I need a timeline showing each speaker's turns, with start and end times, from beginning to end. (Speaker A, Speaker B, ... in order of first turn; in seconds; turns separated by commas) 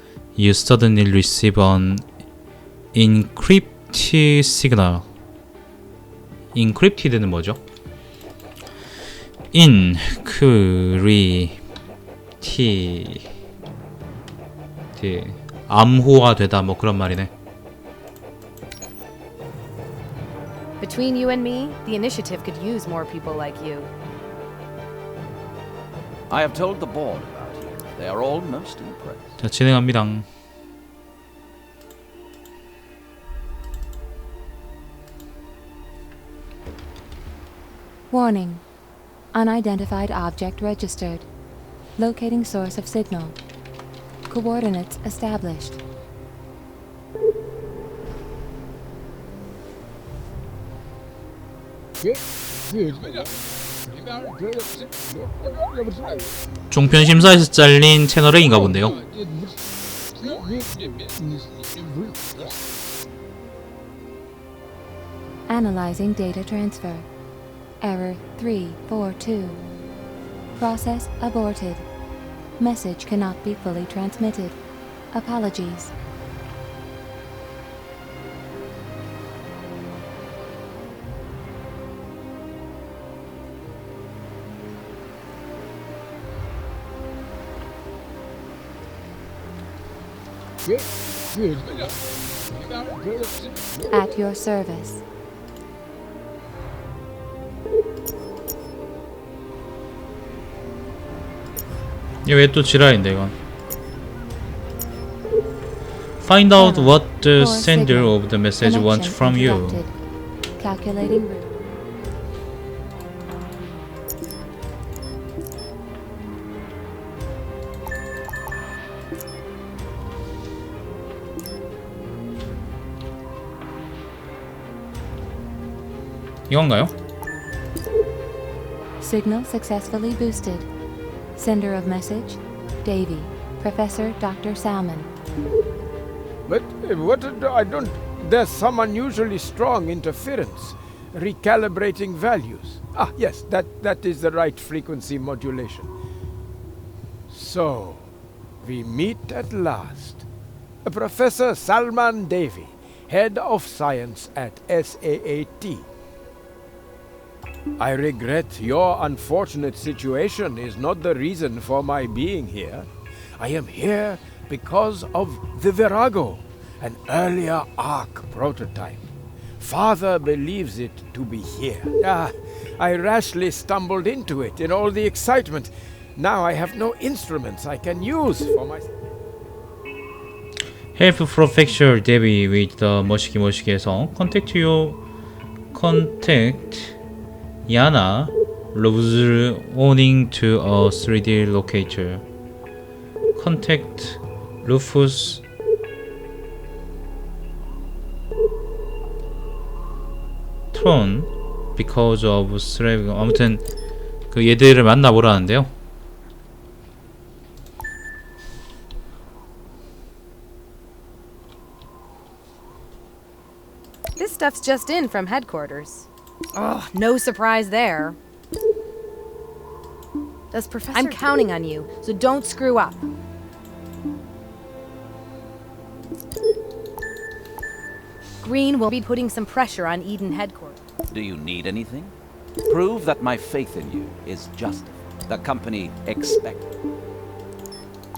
Speaker A: 0.4-2.0, Speaker A: 2.9-5.0, Speaker A: 6.5-7.6, Speaker A: 9.5-11.6, Speaker A: 12.4-13.3, Speaker A: 14.9-17.3, Speaker B: 20.8-23.9, Speaker C: 26.3-29.3, Speaker A: 29.4-30.2, Speaker D: 38.1-38.6, Speaker D: 39.3-41.2, Speaker D: 42.0-43.4, Speaker D: 44.3-45.8, Speaker E: 52.7-53.3, Speaker E: 53.9-56.2, Speaker A: 56.7-59.0, Speaker E: 60.2-62.3, Speaker D: 65.5-67.1, Speaker D: 67.8-69.6, Speaker D: 70.6-71.9, Speaker D: 72.6-74.6, Speaker D: 75.1-75.9, Speaker E: 91.4-91.9, Speaker D: 93.9-95.0, Speaker A: 102.2-103.3, Speaker A: 106.2-109.8, Speaker D: 106.5-109.9, Speaker D: 110.6-111.5, Speaker A: 126.5-126.9, Speaker D: 129.0-130.7, Speaker D: 131.3-135.1, Speaker E: 136.5-145.9, Speaker E: 147.3-148.1, Speaker E: 148.6-150.2, Speaker E: 150.8-155.8, Speaker E: 157.8-169.0, Speaker E: 169.6-178.9, Speaker A: 180.9-185.0, Speaker A: 185.7-186.9, Speaker A: 187.7-192.2, Speaker A: 193.3-195.4, Speaker A: 200.7-203.6, Speaker A: 204.3-205.7, Speaker B: 214.2-218.2, Speaker B: 220.5-223.0, Speaker B: 228.4-230.8, Speaker C: 231.1-232.1, Speaker C: 232.7-236.6